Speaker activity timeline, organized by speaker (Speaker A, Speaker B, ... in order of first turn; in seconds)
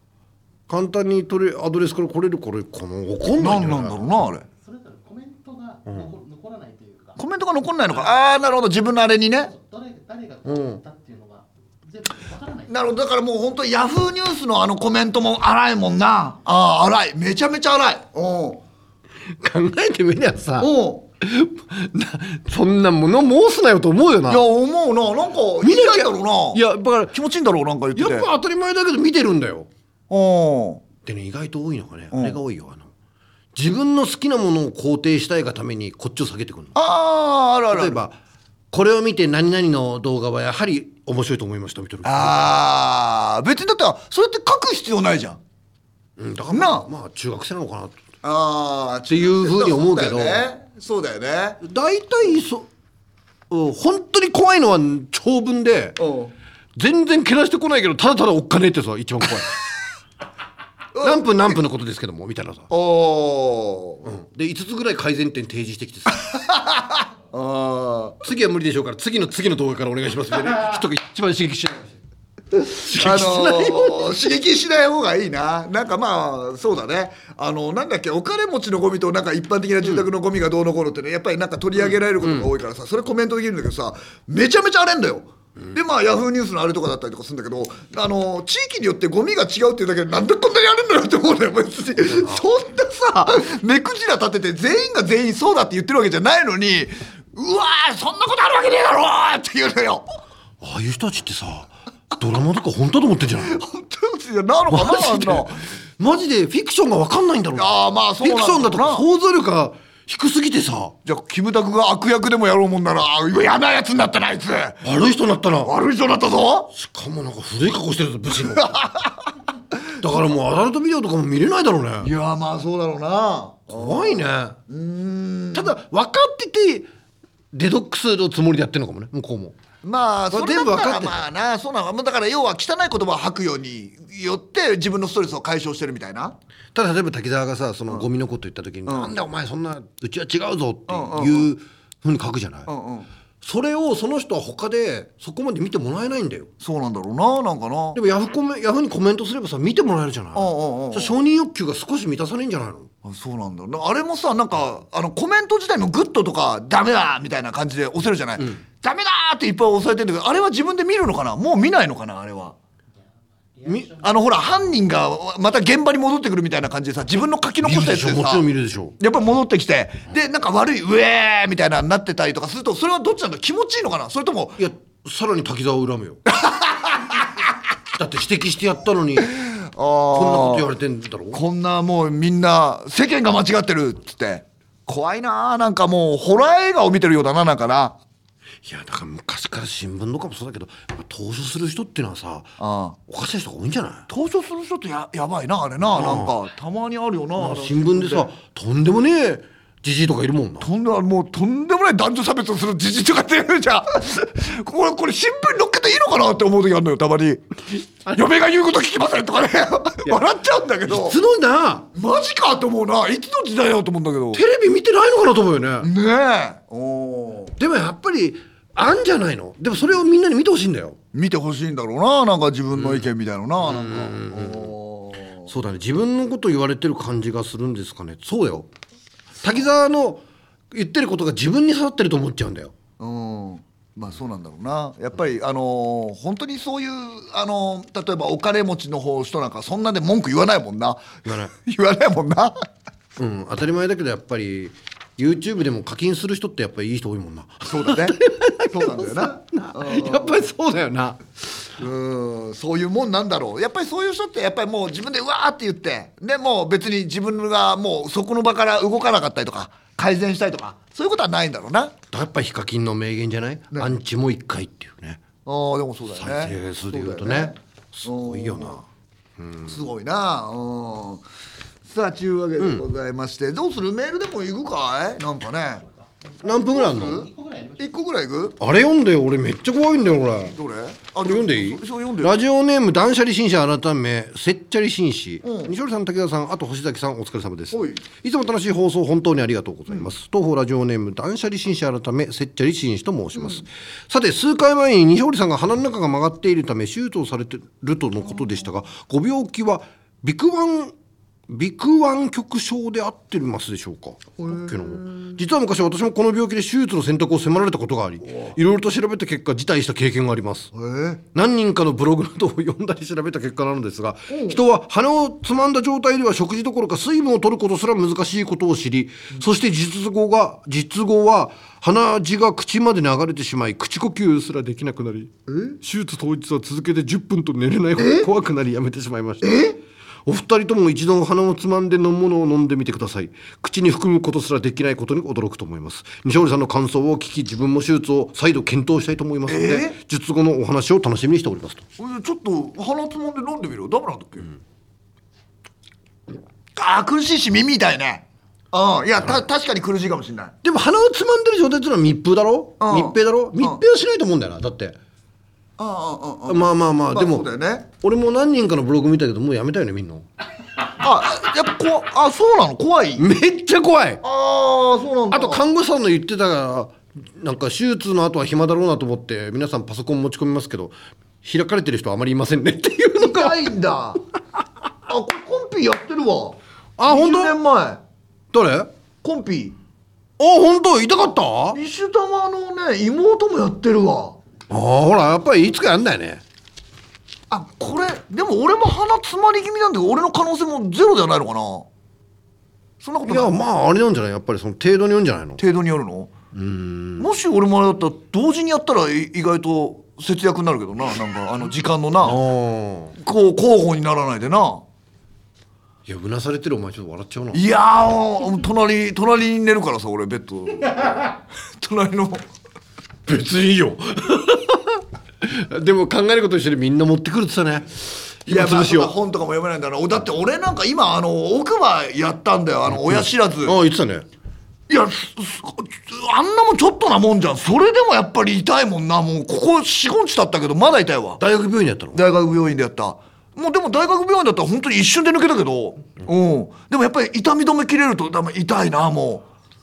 Speaker A: 0.7-4.1, 10.4-10.8, 19.3-24.4, 25.6-27.1, 27.9-29.7, 31.0-32.9, 33.5-36.8, 37.7-38.2, 38.7-42.5, 46.2-48.0, 49.1-50.4, 51.6-52.7, 53.5-56.0, 56.8-59.6, 61.0-62.7, 64.0-66.2, 68.2-71.9, 72.7-74.1, 82.2-82.5, 92.2-92.4, 100.6-103.6, 104.7-110.9, 114.8-115.7, 116.7-118.8, 120.0-122.1, 123.7-124.6, 125.5-126.9, 127.5-129.6, 130.3-131.2, 136.7-142.7, 143.4-146.5, 147.9-152.9, 163.6-163.9, 167.6-168.9, 174.6-176.2, 177.9-179.3, 180.1-181.4, 188.6-192.5, 193.1-194.1, 195.9-196.3, 197.4-200.7, 210.8-211.9, 214.3-215.9, 217.6-221.0, 222.8-223.1, 223.6-224.7, 225.5-228.7, 229.4-232.7, 241.2-241.5, 243.2-251.2, 262.1-265.2, 266.2-268.8, 269.4-269.8, 272.6-272.8, 276.4-277.3, 278.6-280.6, 281.2-300.9, 301.5-310.7, 311.3-341.8, 350.6-355.0, 356.5-360.2, 363.2-364.2, 365.3-373.6, 377.0-377.6, 378.5-378.9, 380.4-381.8, 384.7-386.4, 393.2-395.6, 396.5-397.3, 402.2-403.1, 406.1-407.6, 413.2-419.1, 422.9-424.2, 431.4-432.2
Speaker B: 3.3-4.5, 7.2-9.5, 12.7-18.6, 20.6-21.0, 24.3-28.3, 30.1-30.8, 32.1-32.4, 36.7-38.0, 42.0-45.4, 46.5-46.9, 48.2-51.6, 56.0-56.3, 60.9-61.6, 62.7-64.0, 66.2-68.2, 72.7-100.0, 103.4-105.6, 107.5-109.0, 111.0-114.8, 115.6-116.7, 118.6-119.1, 122.0-125.8, 129.8-136.3, 138.8-139.1, 140.9-141.5, 142.7-143.1, 146.6-148.0, 150.3-151.2, 153.0-162.6, 164.0-168.4, 169.0-174.6, 176.3-177.4, 179.2-180.7, 181.3-188.0, 192.6-193.0, 194.1-198.3, 200.6-211.2, 211.9-214.4, 215.8-217.6, 221.1-225.5, 233.0-242.5, 247.6-248.2, 248.7-250.4, 251.8-261.9, 265.4-268.8, 269.6-271.2, 271.8-275.8, 276.7-277.3, 277.8-278.6, 280.4-282.4, 285.4-285.7, 287.7-288.0, 304.4-305.3, 310.7-311.2, 314.3-314.6, 325.5-325.8, 328.0-328.3, 329.4-329.8, 339.5-340.0, 342.0-344.5, 346.8-350.5, 352.8-353.8, 355.8-357.9, 361.0-363.3, 364.2-365.6, 373.2-374.2, 375.1-378.0, 379.2-379.8, 381.7-384.4, 387.5-391.9, 393.0-393.5, 395.6-396.3, 397.2-402.4, 403.2-404.8, 407.5-412.4, 418.4-423.8, 424.9-431.4, 432.1-439.5
Speaker C: 4.6-7.2, 9.4-12.8, 163.5-164.2, 276.1-278.0